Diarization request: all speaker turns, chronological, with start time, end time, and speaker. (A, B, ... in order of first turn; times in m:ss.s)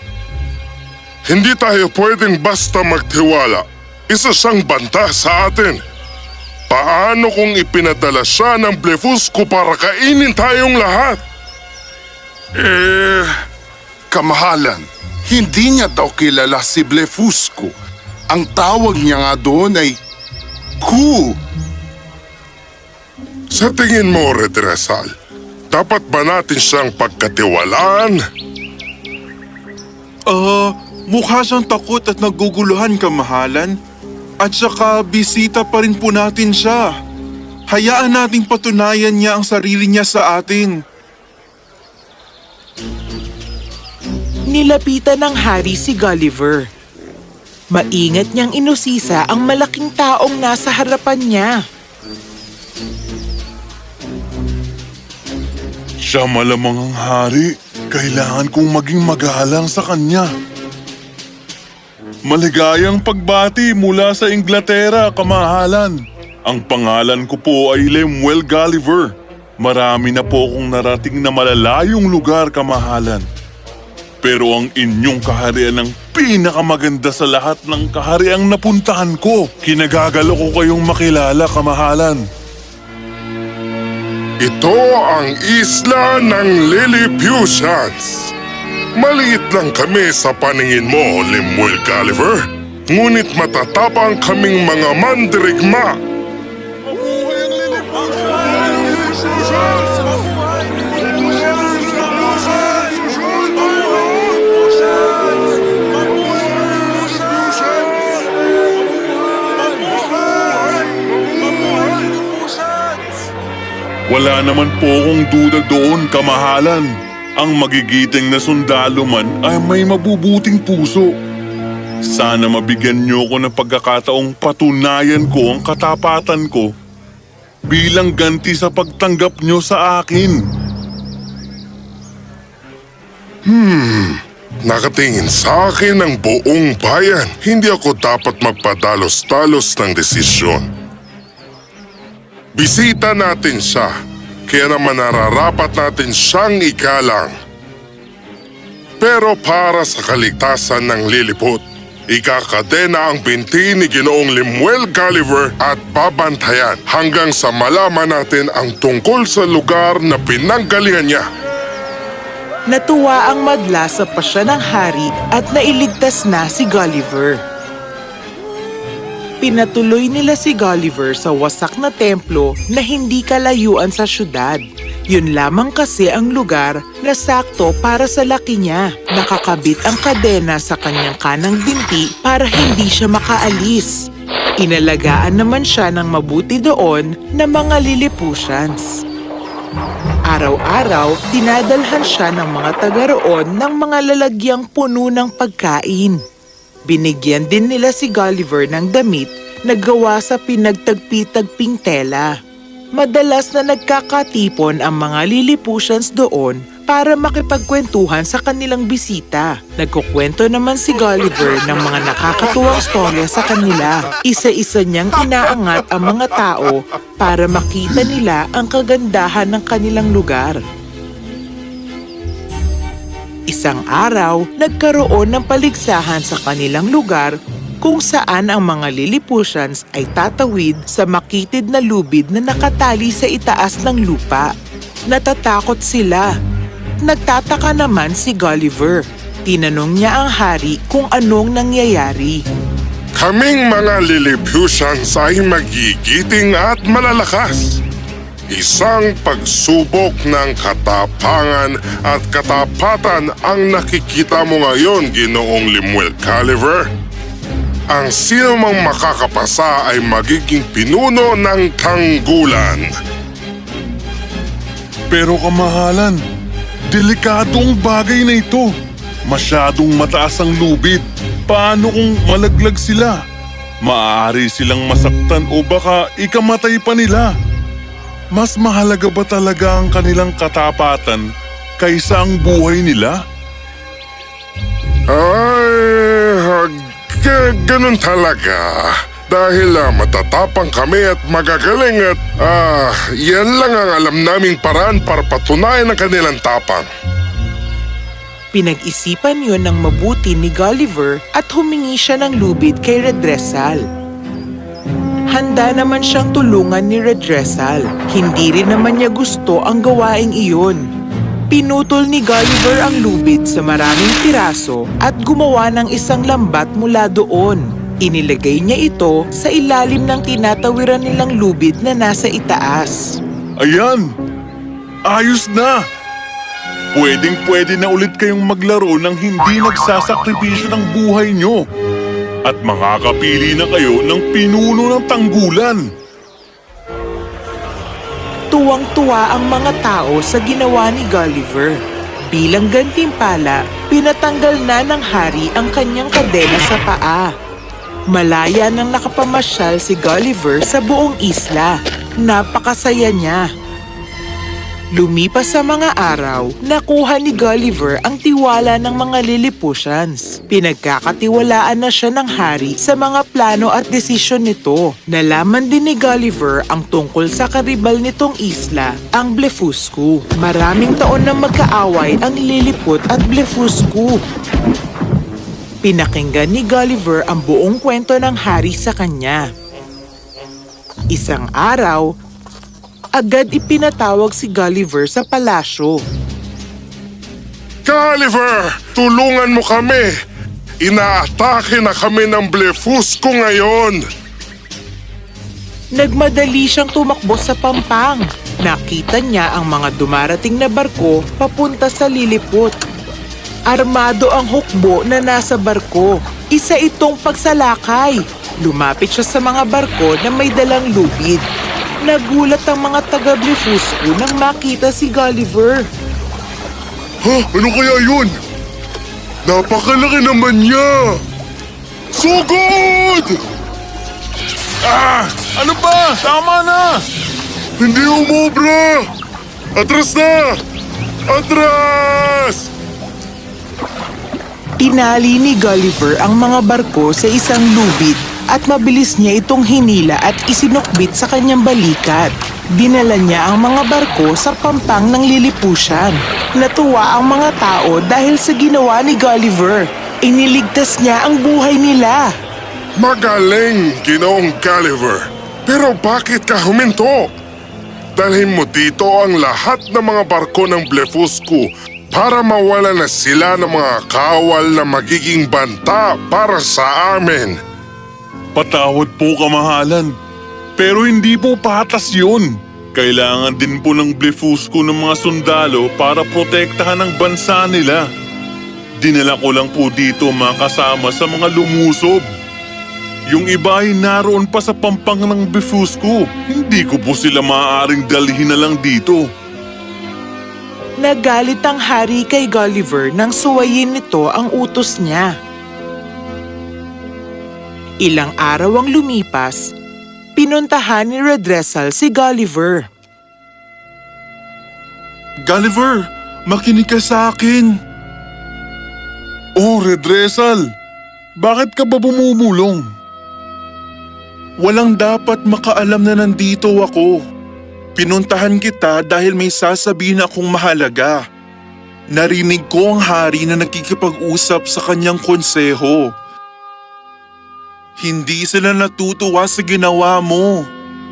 0:01.2-0:05.8 A
0:06.7-0:11.2 A
0:12.5-0:13.3 A
0:14.1-0:17.7 B
0:18.3-0:20.0 B
0:20.8-0:21.4 B
0:23.5-0:25.1 A
0:25.7-0:28.2 A
0:30.3-0:33.8 C
0:34.4-0:36.9 C
0:37.7-0:40.8 C
0:44.5-0:46.6 D
0:47.7-0:51.5 D
0:56.0-1:00.3 E
1:02.3-1:13.2 E
1:14.2-1:22.2 E
1:24.4-1:28.3 A
1:29.0-1:35.9 A
1:36.8-1:40.2 E
1:41.4-1:43.6 E
1:54.1-2:01.1 E
2:02.0-2:06.7 E
2:07.7-2:10.4 E
2:13.5-2:20.7 A
2:22.6-2:23.9 A
2:24.5-2:27.3 A
2:29.0-2:41.2 A
2:42.7-2:47.4 D
2:49.4-3:04.0 D
3:04.6-3:08.9 D
3:10.3-3:16.2 D
3:16.9-3:22.3 D
3:23.0-3:40.6 D
3:43.5-3:54.5 D
3:55.1-3:56.3 D
3:57.0-4:02.4 D
4:03.2-4:07.8 A
4:08.5-4:16.9 A
4:17.9-4:22.9 A
4:25.1-4:26.2 E
4:26.9-4:28.7 E
4:29.3-4:33.2 E
4:33.8-4:37.3 E
4:38.3-4:41.2 E
4:41.8-4:43.2 E
4:45.1-4:56.9 A
4:58.5-5:03.8 D
5:05.3-5:10.8 D
5:11.5-5:23.2 D
5:23.6-5:24.0 E
5:25.1-5:25.8 E
5:26.9-5:31.6 E
5:32.4-5:35.8 E
5:38.5-5:41.8 D
5:42.3-5:47.3 D
5:48.1-5:53.4 D
5:55.0-6:14.2 D
6:15.8-6:19.4 D
6:21.1-6:22.1 D
6:23.2-6:26.0 D
6:27.8-6:30.1 A
6:30.8-6:34.0 A
6:36.0-6:42.7 D
6:43.7-6:51.4 D
6:52.0-6:55.9 D
6:57.2-6:58.3 A
6:59.4-7:01.2 A
7:02.1-7:03.3 A
7:04.8-7:07.0 E
7:07.8-7:09.0 A
7:09.8-7:10.6 A
7:11.3-7:12.7 A
7:14.8-7:32.3 D
7:33.0-7:37.3 A
7:38.2-7:47.6 A
7:48.5-7:50.1 E
7:50.8-7:58.0 E
7:59.0-8:02.2 E
8:03.3-8:09.2 E
8:11.0-8:15.3 D
8:18.0-8:19.6 D
8:20.4-8:22.8 D
8:25.4-8:27.7 C
8:29.6-8:30.6 E
8:31.4-8:32.8 E
8:34.6-8:37.1 C
8:38.0-8:41.2 C
8:42.1-8:46.1 C
8:48.0-8:50.6 C